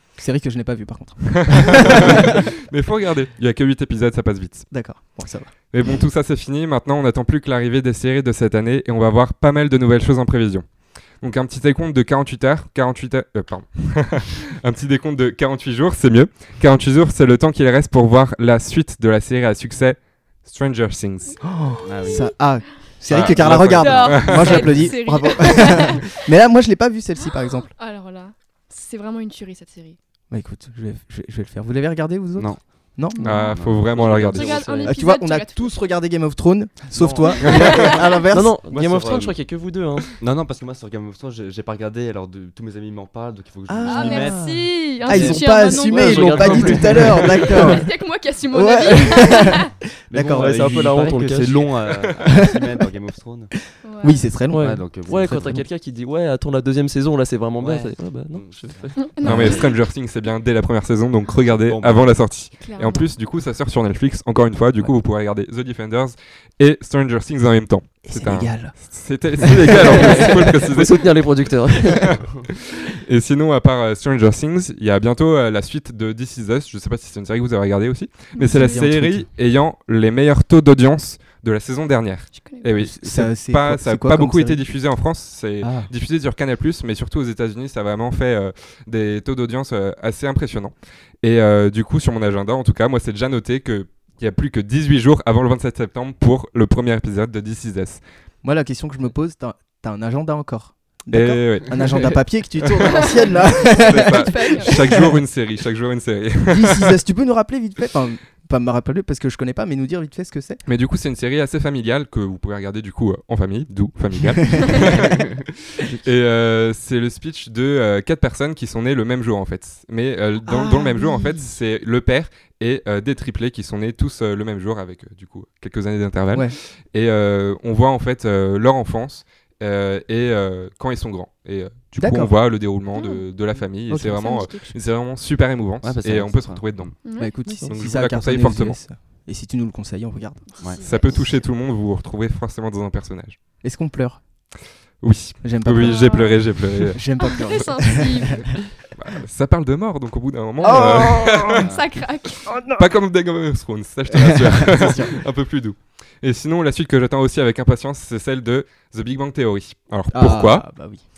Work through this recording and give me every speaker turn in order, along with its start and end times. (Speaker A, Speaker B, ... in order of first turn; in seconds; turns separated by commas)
Speaker A: 0.2-2.4, Speaker B: 1.3-4.7, Speaker A: 4.7-5.5, Speaker B: 5.7-10.6, Speaker B: 11.2-21.4, Speaker A: 21.4-27.7, Speaker C: 21.8-22.3, Speaker C: 23.1-24.3, Speaker B: 23.2-24.8, Speaker D: 23.8-26.1, Speaker D: 27.7-30.0, Speaker A: 30.3-33.5, Speaker C: 32.4-32.6, Speaker C: 33.2-34.6, Speaker B: 33.2-34.7, Speaker E: 33.2-35.0, Speaker D: 34.3-35.7, Speaker A: 34.9-38.6, Speaker C: 37.0-37.3, Speaker D: 37.4-38.1, Speaker B: 37.4-37.9, Speaker E: 38.3-40.2, Speaker C: 38.7-39.6, Speaker C: 40.2-44.5, Speaker A: 43.7-47.9, Speaker D: 43.8-49.7, Speaker E: 45.1-47.8, Speaker A: 48.5-50.6, Speaker C: 50.1-53.5, Speaker E: 50.3-51.7, Speaker D: 53.8-54.3, Speaker A: 54.0-55.6, Speaker E: 54.5-59.6, Speaker C: 54.6-55.5, Speaker C: 57.6-59.5, Speaker D: 59.0-59.6, Speaker B: 59.2-71.1, Speaker A: 59.2-59.6, Speaker C: 61.6-62.1, Speaker D: 62.6-63.1, Speaker A: 68.0-68.8, Speaker A: 69.4-70.3, Speaker E: 69.5-72.2, Speaker B: 72.0-98.0, Speaker D: 78.3-78.8, Speaker A: 78.4-79.3, Speaker D: 82.3-82.7, Speaker A: 82.8-84.6, Speaker A: 85.6-85.9, Speaker A: 98.4-105.2, Speaker B: 101.1-106.9, Speaker D: 102.9-104.8, Speaker A: 106.5-110.6, Speaker B: 110.7-136.9, Speaker A: 120.4-121.5, Speaker A: 132.0-132.3, Speaker D: 132.9-133.3, Speaker A: 133.9-134.7, Speaker C: 135.8-136.9, Speaker D: 137.0-137.3, Speaker A: 137.2-140.6, Speaker E: 137.4-137.9, Speaker B: 137.7-138.8, Speaker D: 140.5-141.4, Speaker B: 140.8-143.4, Speaker A: 143.6-144.2, Speaker B: 145.0-147.0, Speaker A: 145.4-148.4, Speaker D: 145.8-146.4, Speaker D: 147.2-148.5, Speaker B: 148.9-151.7, Speaker A: 150.6-151.7, Speaker D: 150.6-152.5, Speaker A: 152.4-152.9, Speaker B: 152.7-160.8, Speaker A: 154.1-155.2, Speaker A: 160.1-161.0